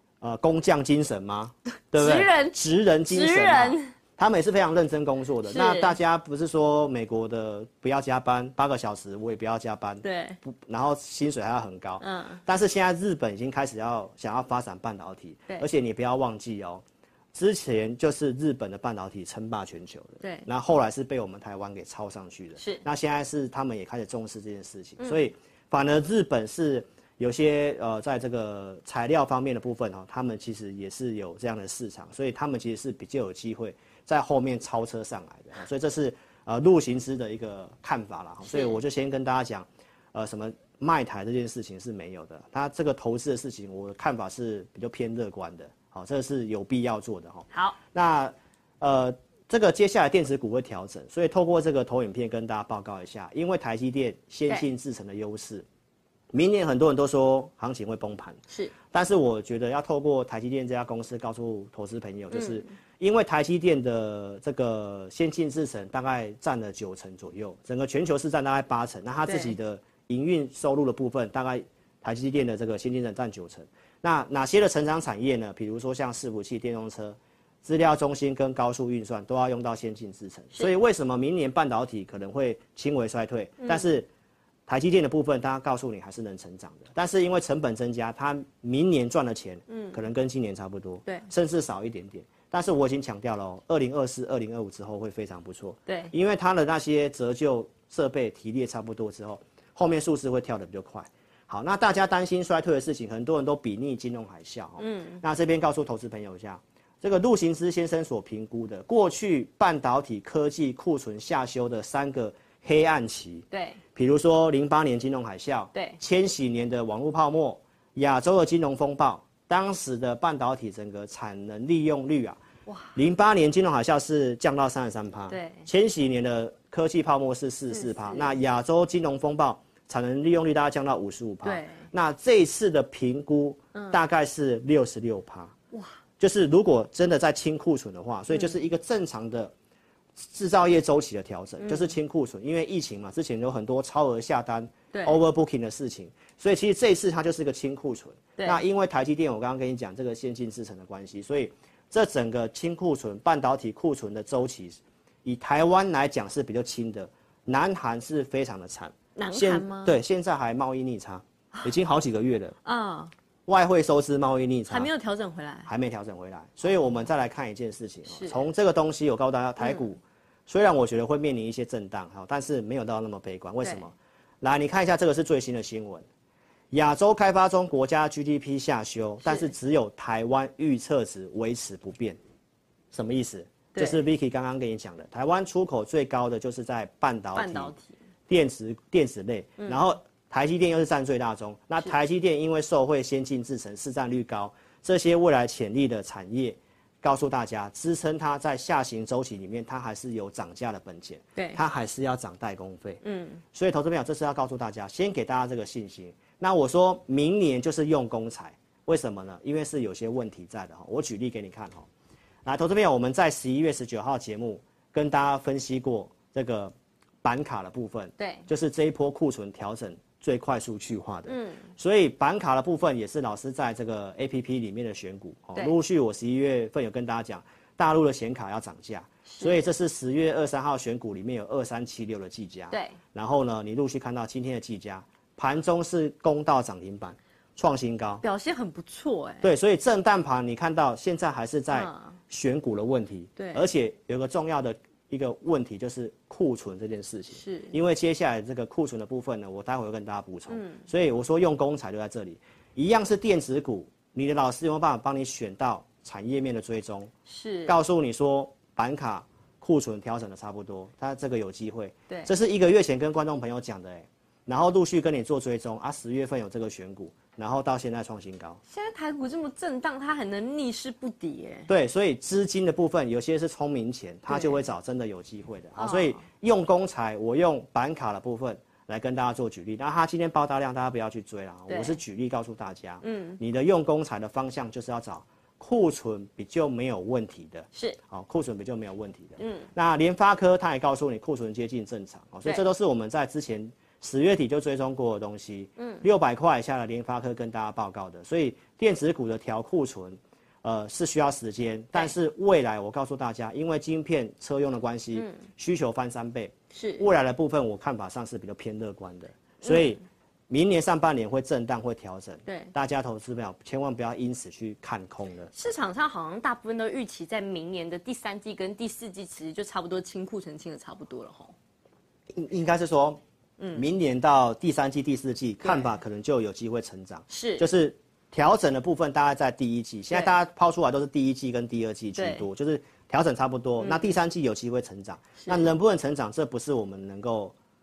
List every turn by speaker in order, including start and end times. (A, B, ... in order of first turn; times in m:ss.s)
0:00.2-0:16.8 A
0:01.9-0:03.9 B
0:05.5-0:06.0 B
0:10.0-0:10.4 B
0:12.0-0:12.4 B
0:17.3-0:55.6 A
0:20.2-0:20.5 B
0:22.6-0:22.8 B
0:38.4-0:38.8 B
0:47.5-0:47.8 B
0:56.3-0:58.4 A
0:58.9-1:24.1 A
1:02.3-1:02.7 B
1:09.3-1:09.6 B
1:23.6-1:23.9 B
1:24.7-2:02.4 A
1:29.7-1:30.0 B
1:35.9-1:36.1 B
1:44.8-1:45.2 B
1:53.5-1:53.8 B
1:55.7-1:56.0 B
2:03.0-2:15.5 A
2:05.3-2:05.7 B
2:07.7-2:08.3 B
2:11.4-2:11.8 B
2:13.7-2:14.0 B
2:16.2-2:19.5 A
2:20.2-2:42.6 A
2:21.6-2:21.9 B
2:24.9-2:25.2 B
2:39.2-2:40.0 B
2:42.6-2:43.1 B
2:43.5-2:44.9 A
2:44.7-2:45.7 B
2:45.7-2:56.0 A
2:48.1-2:48.4 B
2:49.6-2:49.9 B
2:53.6-2:53.9 B
2:56.7-3:02.2 A
2:59.2-2:59.5 B
3:02.9-3:07.7 A
3:03.7-3:04.0 B
3:07.4-3:07.9 B
3:08.3-3:23.0 A
3:23.0-3:23.4 B
3:23.5-3:31.9 A
3:32.4-3:58.2 A
3:38.2-3:38.4 B
3:41.3-3:41.6 B
3:49.3-3:49.6 B
3:52.7-3:53.0 B
3:58.2-3:59.5 B
3:59.4-4:17.1 A
4:01.7-4:02.1 B
4:03.4-4:03.6 B
4:07.3-4:07.8 B
4:10.5-4:10.8 B
4:17.3-4:17.8 B
4:17.7-4:28.6 A
4:28.7-4:31.7 B
4:31.7-5:15.5 A
4:34.3-4:34.6 B
4:35.8-4:36.2 B
4:41.7-4:42.0 B
4:43.0-4:43.4 B
4:49.4-4:49.7 B
4:55.8-4:56.0 B
5:05.2-5:05.4 B
5:06.7-5:07.1 B
5:09.6-5:09.9 B
5:12.5-5:12.7 B
5:15.5-5:21.5 B
5:22.3-5:23.2 A
5:23.6-5:23.8 B
5:23.7-5:37.5 A
5:25.6-5:25.9 B
5:27.3-5:27.6 B
5:32.2-5:32.5 B
5:33.8-5:34.2 B
5:35.4-5:35.7 B